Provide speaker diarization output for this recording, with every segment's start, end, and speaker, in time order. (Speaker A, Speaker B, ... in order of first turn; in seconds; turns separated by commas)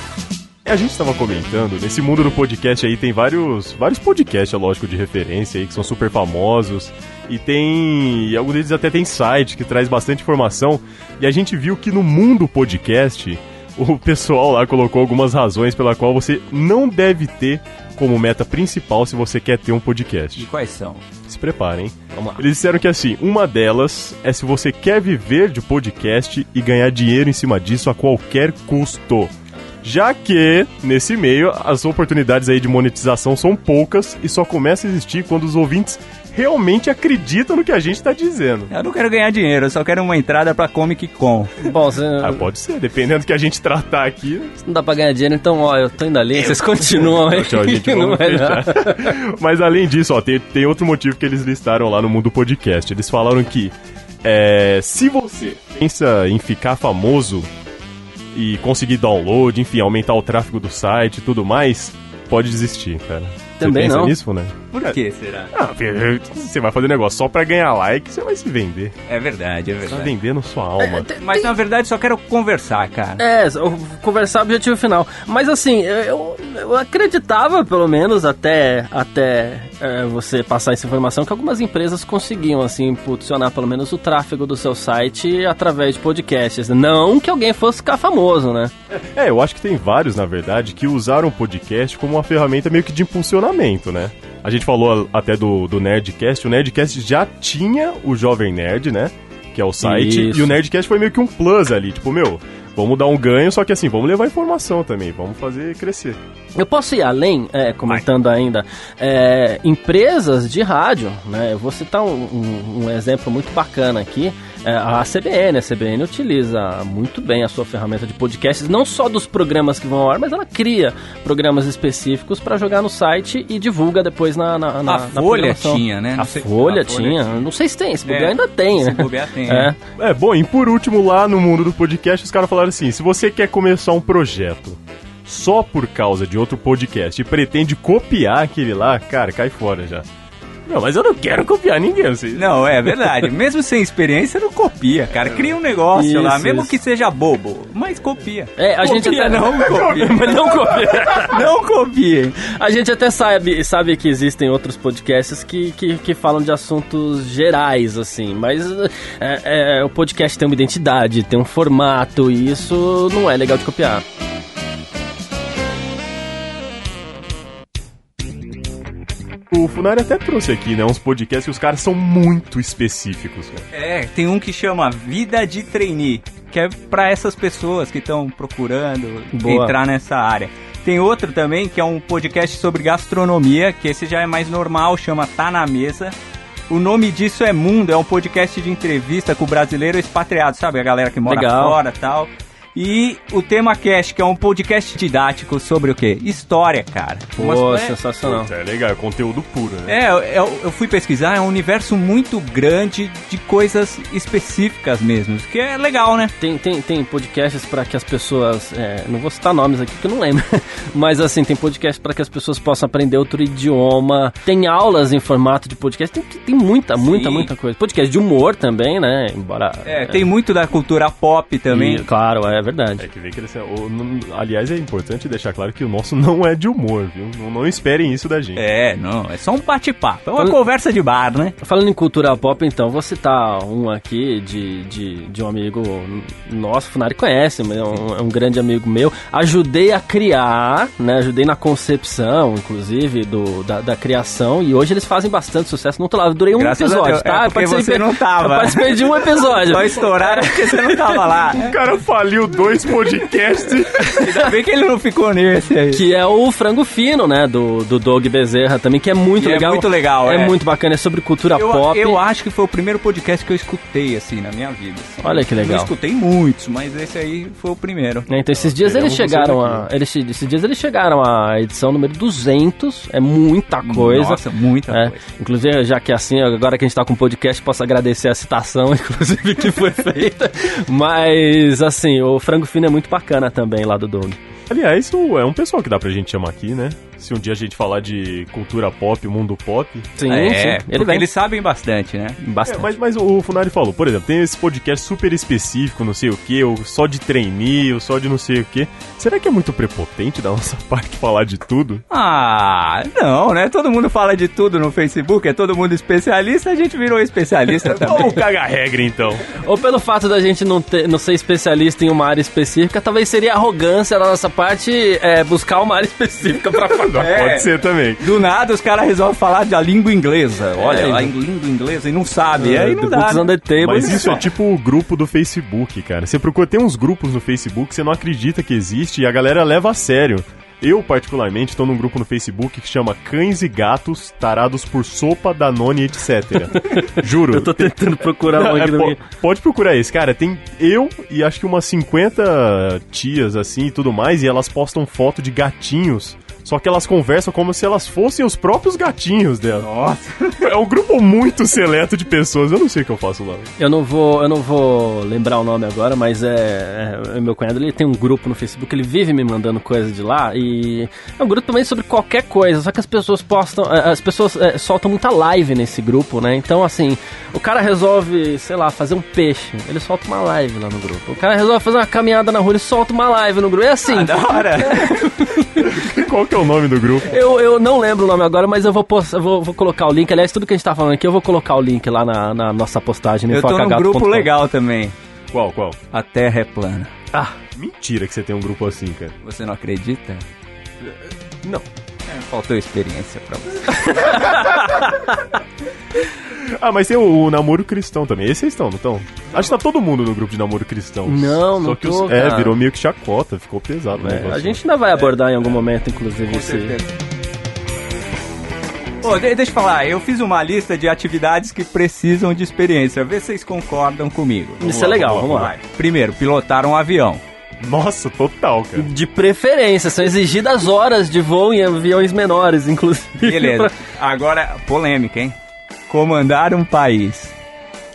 Speaker A: 0.7-20.5, Speaker B: 20.4-21.1, Speaker A: 21.3-29.3, Speaker C: 22.1-22.4, Speaker A: 29.8-38.7, Speaker B: 38.7-41.6, Speaker C: 41.6-42.5, Speaker A: 42.2-44.5, Speaker C: 44.6-49.2, Speaker A: 46.5-57.5, Speaker A: 58.3-65.0, Speaker C: 63.6-64.2, Speaker B: 64.7-65.5, Speaker A: 65.5-69.0, Speaker B: 69.1-70.1, Speaker A: 69.9-71.1, Speaker C: 70.8-71.5, Speaker B: 71.2-73.2, Speaker C: 73.2-88.7, Speaker A: 88.9-106.2, Speaker C: 99.8-100.5, Speaker C: 106.6-129.8, Speaker B: 124.9-127.4, Speaker B: 128.1-129.7, Speaker A: 130.0-140.1, Speaker A: 140.7-143.1, Speaker B: 142.3-150.5, Speaker C: 145.9-146.8, Speaker C: 148.6-151.4, Speaker A: 149.6-151.0, Speaker B: 151.2-152.4, Speaker C: 152.4-164.0, Speaker A: 169.5-173.7, Speaker B: 173.7-186.2, Speaker C: 179.3-179.8, Speaker B: 186.7-198.0, Speaker C: 191.3-191.8, Speaker C: 197.4-198.5, Speaker A: 198.2-200.0, Speaker B: 199.9-206.3, Speaker C: 206.4-220.3, Speaker B: 217.0-217.5, Speaker B: 219.9-222.0, Speaker C: 221.7-223.1, Speaker A: 223.0-228.6, Speaker B: 228.6-231.6, Speaker C: 231.6-251.2, Speaker B: 246.6-251.8, Speaker A: 251.5-254.1, Speaker B: 254.1-256.0, Speaker C: 254.1-254.4, Speaker C: 255.9-262.2, Speaker B: 259.4-260.6, Speaker B: 261.5-268.3, Speaker C: 265.2-265.9, Speaker C: 268.3-284.4, Speaker A: 268.6-269.9, Speaker B: 273.9-275.2, Speaker A: 284.7-290.1, Speaker C: 290.2-291.3, Speaker B: 290.3-292.4, Speaker C: 292.4-292.9, Speaker A: 292.7-302.0, Speaker B: 302.1-308.4, Speaker A: 307.9-309.4, Speaker C: 309.6-317.3, Speaker A: 317.0-318.2, Speaker B: 317.1-324.3, Speaker C: 320.8-321.3, Speaker C: 322.6-324.4, Speaker A: 323.8-349.9, Speaker C: 336.8-339.2, Speaker B: 349.8-350.7, Speaker A: 350.6-353.7, Speaker C: 353.8-376.0, Speaker B: 374.1-375.4, Speaker A: 375.8-377.4, Speaker C: 377.2-384.5, Speaker B: 383.5-385.1, Speaker A: 385.5-386.0, Speaker B: 386.1-387.1, Speaker A: 387.7-389.4, Speaker B: 389.4-390.4, Speaker A: 391.0-391.9, Speaker B: 392.3-394.6, Speaker C: 394.1-395.4, Speaker A: 396.5-404.8, Speaker C: 401.3-402.8, Speaker C: 404.2-407.0, Speaker B: 406.4-407.1, Speaker B: 409.2-417.4, Speaker C: 414.8-415.8, Speaker A: 415.0-415.7, Speaker A: 417.8-419.1, Speaker C: 419.0-423.9, Speaker B: 423.4-425.6, Speaker B: 426.1-427.5